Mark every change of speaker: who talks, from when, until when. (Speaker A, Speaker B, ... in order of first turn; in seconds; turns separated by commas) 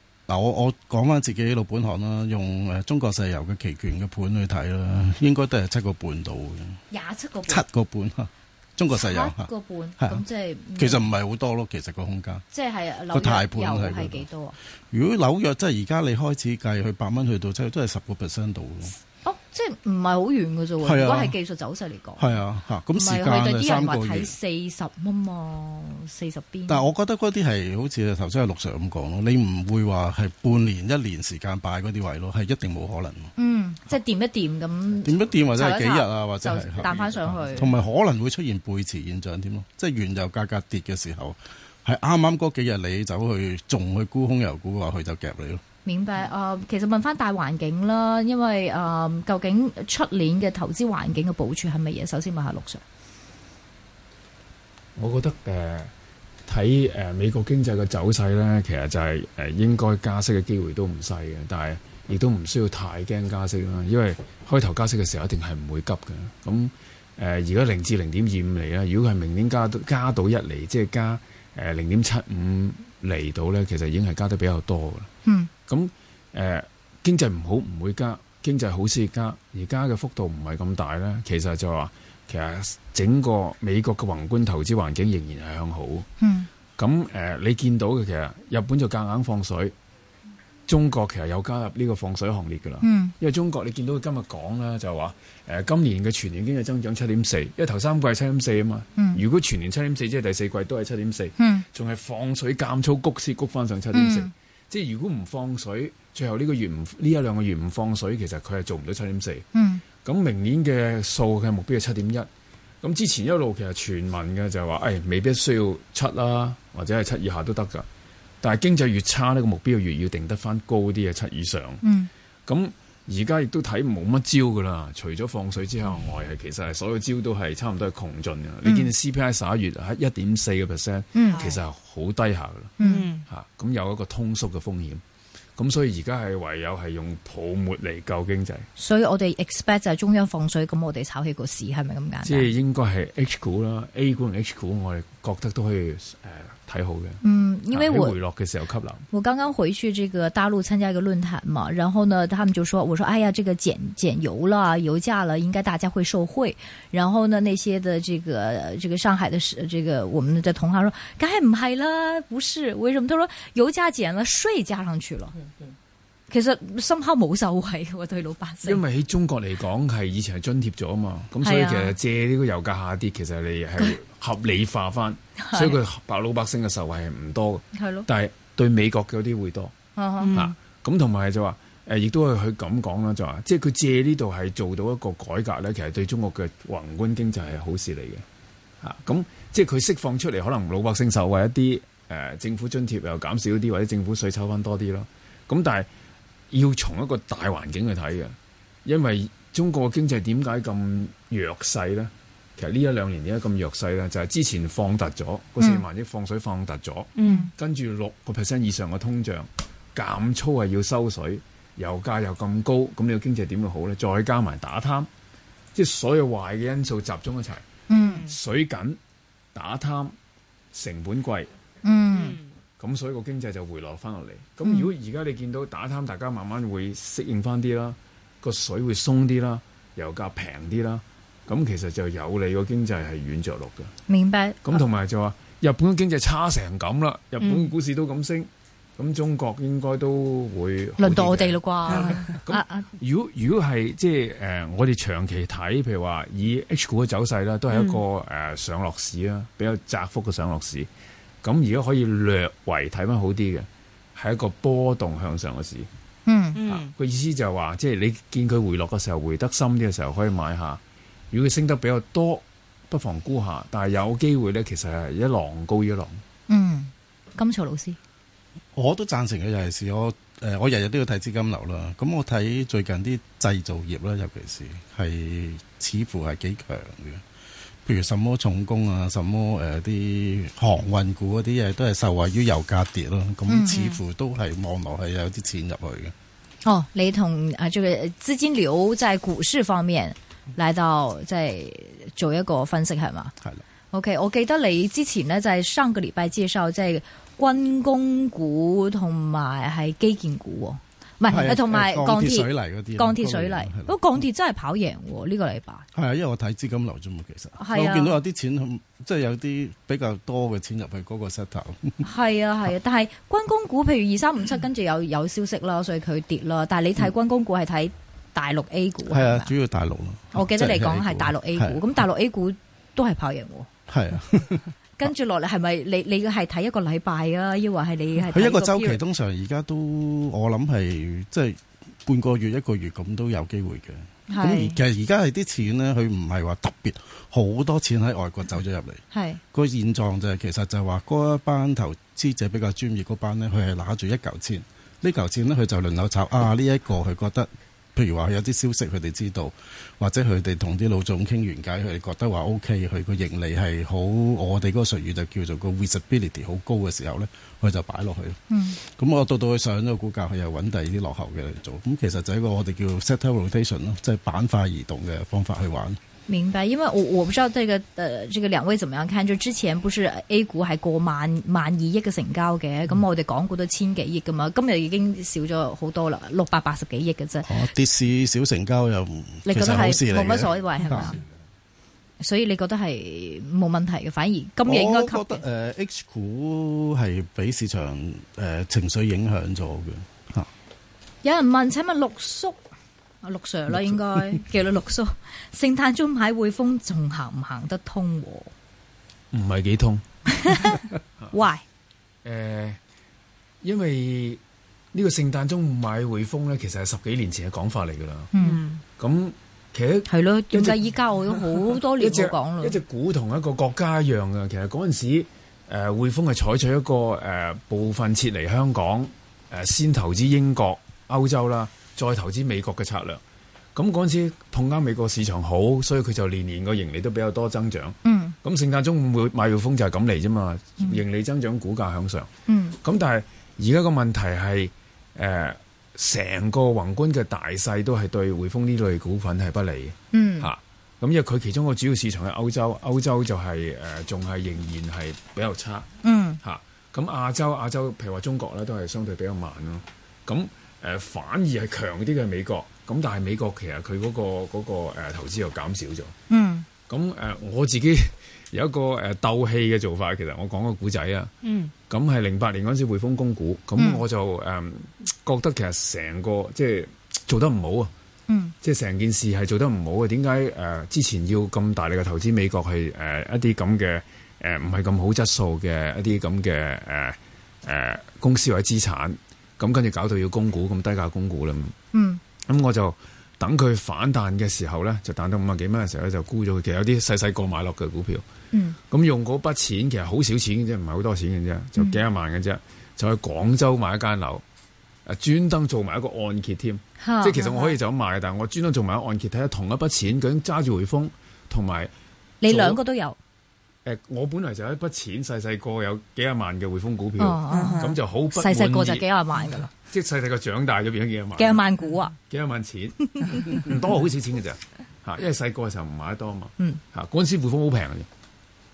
Speaker A: 0.3-6.8, Speaker B: 6.9-7.6, Speaker A: 7.5-9.5, Speaker B: 8.9-11.1, Speaker A: 10.8-12.4, Speaker B: 12.5-14.6, Speaker A: 13.1-14.3, Speaker A: 14.9-18.9, Speaker B: 19.2-22.4, Speaker A: 20.8-21.4, Speaker A: 22.2-24.3, Speaker B: 22.9-26.9, Speaker A: 26.7-33.3, Speaker B: 33.4-37.7, Speaker A: 35.0-45.6, Speaker B: 45.9-52.8, Speaker C: 55.0-55.9, Speaker C: 56.5-75.1, Speaker C: 75.7-86.1, Speaker B: 86.2-86.5, Speaker C: 86.8-89.7, Speaker C: 90.7-109.5, Speaker B: 92.8-93.1, Speaker B: 101.4-101.7, Speaker B: 103.9-104.3, Speaker B: 109.5-109.8, Speaker C: 110.0-112.3, Speaker C: 112.8-117.9, Speaker C: 118.4-121.8, Speaker B: 121.8-122.1, Speaker C: 122.5-132.7, Speaker B: 128.7-128.9, Speaker B: 131.2-131.4, Speaker D: 131.3-131.6, Speaker B: 132.8-133.1, Speaker D: 132.8-133.3, Speaker C: 133.3-135.0, Speaker C: 135.6-138.7, Speaker B: 138.8-142.5, Speaker C: 142.2-147.2, Speaker B: 147.2-148.2, Speaker C: 147.7-149.1, Speaker B: 149.1-165.4, Speaker B: 166.3-168.8, Speaker C: 168.6-179.8, Speaker B: 171.4-172.0, Speaker B: 175.4-175.8, Speaker B: 177.7-178.1, Speaker B: 180.0-180.3, Speaker D: 180.2-180.5, Speaker C: 180.3-188.2, Speaker C: 188.8-195.9, Speaker C: 196.5-215.1, Speaker D: 207.2-207.5, Speaker B: 207.2-207.5, Speaker C: 215.7-217.7, Speaker B: 217.9-218.2, Speaker D: 218.0-218.3, Speaker C: 218.3-219.0, Speaker C: 219.6-220.2, Speaker C: 220.7-221.5, Speaker B: 221.8-222.4, Speaker D: 222.1-222.5, Speaker C: 222.8-233.9, Speaker B: 224.7-224.9, Speaker B: 234.1-234.8, Speaker C: 234.7-250.9, Speaker D: 237.4-237.7, Speaker B: 241.0-242.9, Speaker D: 241.9-242.3, Speaker D: 247.7-248.0, Speaker C: 251.4-255.9, Speaker B: 256.3-256.6, Speaker D: 256.6-256.9, Speaker C: 256.7-260.8, Speaker C: 261.3-266.2, Speaker B: 266.5-268.0, Speaker A: 268.8-277.2, Speaker A: 277.9-286.1, Speaker B: 283.5-283.8, Speaker D: 283.7-284.0, Speaker B: 286.6-293.3, Speaker B: 293.9-305.9, Speaker A: 301.3-304.0, Speaker A: 305.9-312.1, Speaker B: 307.6-308.2, Speaker B: 312.0-319.5, Speaker A: 319.1-321.8, Speaker B: 320.3-323.7, Speaker A: 323.9-324.7, Speaker B: 325.0-329.0, Speaker A: 328.3-339.0, Speaker B: 334.3-334.8, Speaker B: 339.1-339.4, Speaker A: 339.5-366.0, Speaker B: 358.5-358.8, Speaker B: 366.3-377.6, Speaker A: 377.5-381.2, Speaker B: 379.5-381.2, Speaker C: 379.6-379.8, Speaker B: 382.2-385.4, Speaker A: 384.7-390.5, Speaker B: 391.2-392.6, Speaker B: 393.2-398.5, Speaker A: 393.7-394.4, Speaker C: 399.3-401.3, Speaker B: 400.3-401.6, Speaker C: 402.2-402.8, Speaker C: 403.6-404.4, Speaker C: 404.9-408.3, Speaker B: 408.3-408.6, Speaker D: 408.4-408.8, Speaker C: 409.0-423.2, Speaker B: 410.1-412.8, Speaker C: 423.8-432.3, Speaker B: 428.1-428.4, Speaker B: 432.5-432.8, Speaker C: 432.8-445.9, Speaker B: 440.1-440.5, Speaker B: 446.0-446.4, Speaker C: 446.4-456.1, Speaker B: 456.3-456.7, Speaker C: 456.9-461.3, Speaker D: 461.4-461.7, Speaker C: 461.9-467.9, Speaker B: 463.8-464.0, Speaker B: 468.3-468.5, Speaker C: 468.6-481.8, Speaker B: 481.9-482.2, Speaker C: 482.5-488.2, Speaker B: 488.5-488.8, Speaker C: 488.9-494.4, Speaker C: 495.1-501.9, Speaker B: 497.0-497.7, Speaker B: 502.4-503.2, Speaker C: 502.4-502.8, Speaker C: 503.9-511.6, Speaker B: 507.2-509.7, Speaker D: 507.5-507.9, Speaker B: 511.4-512.2, Speaker C: 512.2-518.1, Speaker B: 513.1-513.6